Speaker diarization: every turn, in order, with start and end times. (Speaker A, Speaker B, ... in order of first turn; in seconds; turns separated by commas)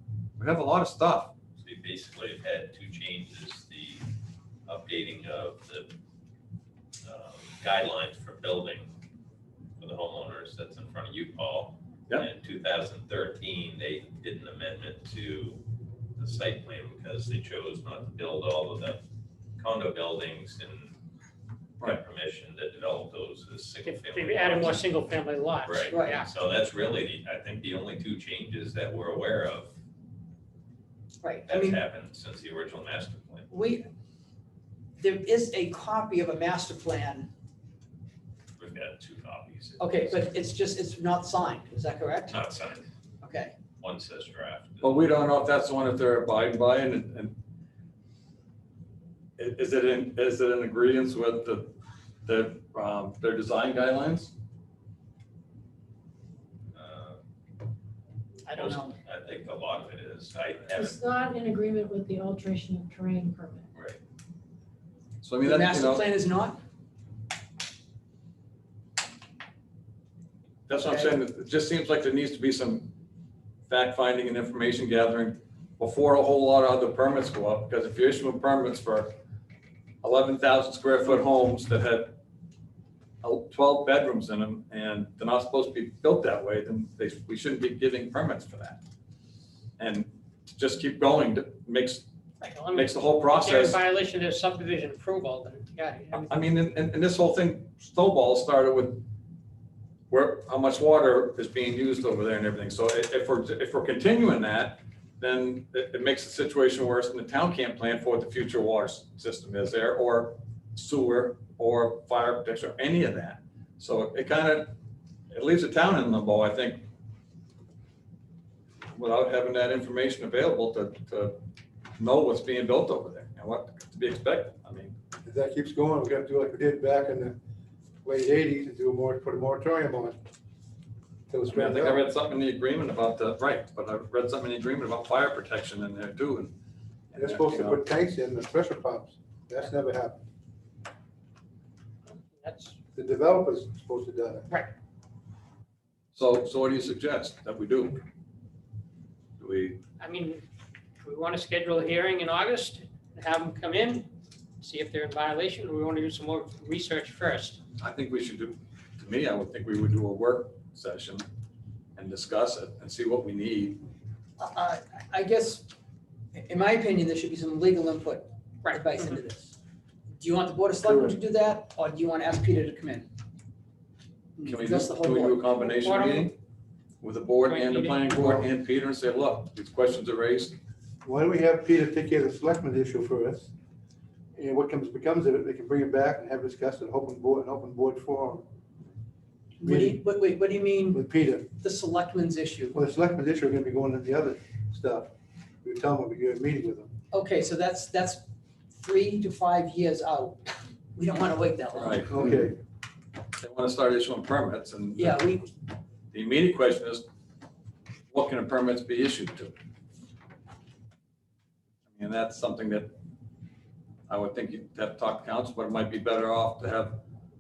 Speaker A: 0.4-1.3, Speaker B: 1.6-4.0, Speaker B: 4.7-5.9, Speaker B: 7.0-8.9, Speaker B: 9.8-15.6, Speaker B: 16.2-19.0, Speaker B: 19.6-20.9, Speaker B: 21.8-24.8, Speaker C: 23.8-26.3, Speaker B: 25.6-29.7, Speaker D: 25.9-26.2, Speaker D: 31.2-31.8, Speaker B: 31.5-33.5, Speaker D: 33.5-33.8, Speaker D: 35.0-37.3, Speaker B: 38.6-40.1, Speaker D: 39.8-42.4, Speaker B: 42.3-42.9, Speaker D: 43.2-43.5, Speaker B: 43.8-44.9, Speaker A: 44.8-47.4, Speaker A: 49.4-51.7, Speaker A: 52.2-54.3, Speaker B: 56.8-57.2, Speaker D: 58.5-58.9, Speaker B: 58.5-61.0, Speaker E: 60.7-63.7, Speaker A: 65.2-66.0, Speaker D: 65.4-66.6, Speaker A: 70.7-72.9, Speaker D: 70.7-71.2, Speaker A: 73.7-79.1, Speaker A: 80.0-82.1, Speaker A: 83.2-88.8, Speaker A: 89.8-92.0, Speaker C: 92.4-96.3, Speaker A: 92.7-93.8, Speaker A: 96.1-99.0, Speaker A: 100.1-114.7, Speaker A: 115.3-116.8, Speaker A: 118.9-121.4, Speaker A: 122.0-124.9, Speaker F: 125.2-127.3, Speaker F: 128.0-130.2, Speaker F: 131.3-132.0, Speaker A: 131.5-136.5, Speaker A: 137.1-137.8, Speaker F: 137.1-140.2, Speaker C: 142.3-142.8, Speaker F: 142.9-144.5, Speaker A: 146.1-148.0, Speaker A: 149.4-149.8, Speaker C: 150.0-150.4, Speaker C: 151.0-154.1, Speaker C: 154.6-157.6, Speaker A: 157.8-161.2, Speaker A: 161.9-163.8, Speaker D: 164.4-165.7, Speaker D: 166.3-169.5, Speaker C: 168.6-169.2, Speaker D: 170.2-173.1, Speaker F: 170.8-171.2, Speaker D: 174.4-175.7, Speaker A: 174.4-176.3, Speaker C: 175.7-176.3, Speaker A: 177.0-180.5, Speaker C: 177.4-178.2, Speaker F: 178.2-178.4, Speaker F: 181.0-183.5, Speaker F: 184.3-188.4, Speaker D: 189.6-192.8, Speaker F: 189.6-190.0, Speaker F: 190.9-191.5, Speaker F: 192.7-195.1, Speaker F: 195.6-196.9, Speaker D: 197.1-200.4, Speaker D: 200.9-202.0, Speaker A: 201.8-202.1, Speaker F: 202.1-202.6, Speaker A: 203.4-205.4, Speaker D: 204.9-205.5, Speaker A: 206.1-207.0, Speaker A: 208.1-209.5, Speaker A: 211.9-212.9, Speaker A: 214.1-217.0